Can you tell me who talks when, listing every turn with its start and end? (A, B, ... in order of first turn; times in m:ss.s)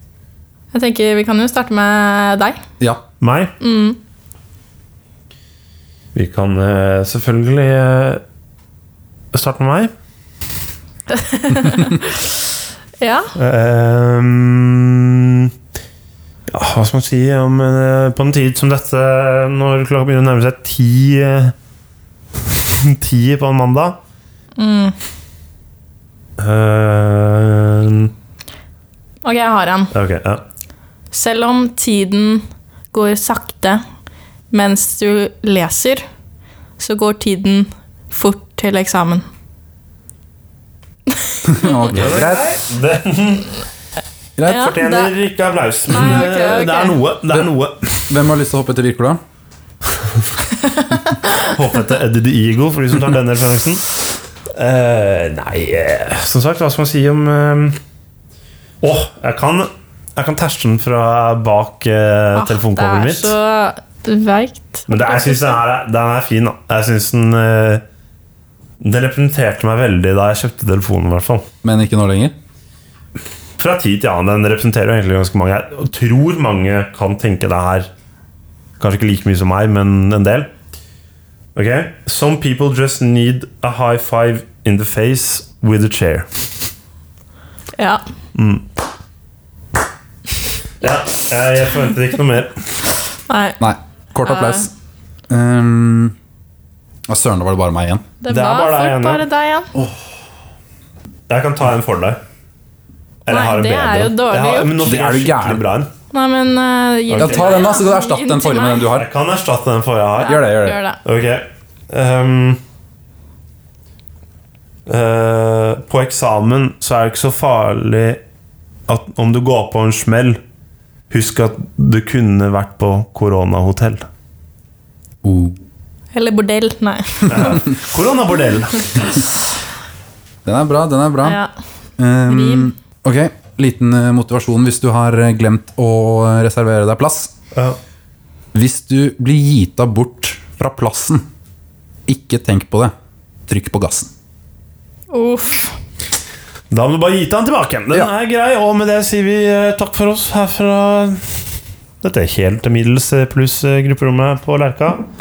0:00.7-0:02.6 A
0:03.2-0:03.5 B
0:03.6-0:04.0 A
0:06.2-0:08.2 B
0:09.3-0:09.9 B
0:11.1-0:12.3 A
0:13.0-0:13.3 A
0:13.4-0:15.5 B
0:16.5-0:21.5 B
0:22.5-0:24.0 B
0:24.6-0:25.0 A
0:26.4-0:28.1 B
0:29.2-0:29.9 A
0:29.9-0:30.4 B
0:31.1-0:33.8 A
0:34.5-0:36.0 A
0:36.8-0:39.3 A
0:41.1-0:41.9 A
0:41.5-0:42.6 C
0:41.9-0:43.5 B
0:44.4-0:44.7 C
0:44.5-0:45.1 A
0:44.5-0:48.1 B
0:45.9-0:47.0 A
0:46.0-0:46.2 C
0:48.1-0:49.2 C
0:50.7-0:51.4 A
0:51.4-0:54.0 B
0:54.6-0:57.8 B
0:58.8-1:03.3 B
1:02.4-1:05.6 A
1:04.9-1:07.8 B
1:08.8-1:11.5 B
1:11.6-1:12.3 C
1:13.6-1:17.9 B
1:18.8-1:20.5 B
1:21.6-1:26.3 B
1:28.4-1:28.6 B
1:30.8-1:32.7 B
1:33.3-1:33.6 A
1:33.6-1:34.7 C
1:34.2-1:34.7 A
1:35.3-1:36.2 C
1:37.1-1:38.0 C
1:38.2-1:39.7 A
1:38.3-1:39.3 B
1:41.3-1:42.2 B
1:43.2-1:45.9 B
1:43.3-1:44.8 A
1:44.8-1:45.7 C
1:46.1-1:48.9 A
1:47.1-1:47.8 B
1:47.2-1:49.1 C
1:48.9-1:50.5 B
1:50.2-1:51.0 A
1:50.2-1:50.8 C
1:51.0-1:52.6 B
1:54.9-1:58.2 B
1:58.9-2:00.4 B
2:01.1-2:04.1 B
2:05.2-2:05.6 C
2:06.1-2:07.7 A
2:07.2-2:09.1 B
2:10.4-2:11.4 C
2:11.2-2:11.5 A
2:12.0-2:17.3 C
2:12.3-2:12.7 A
2:18.5-2:21.2 C
2:22.1-2:22.9 C
2:23.5-2:24.1 C
2:25.1-2:25.8 A
2:26.7-2:31.4 B
2:32.0-2:35.1 B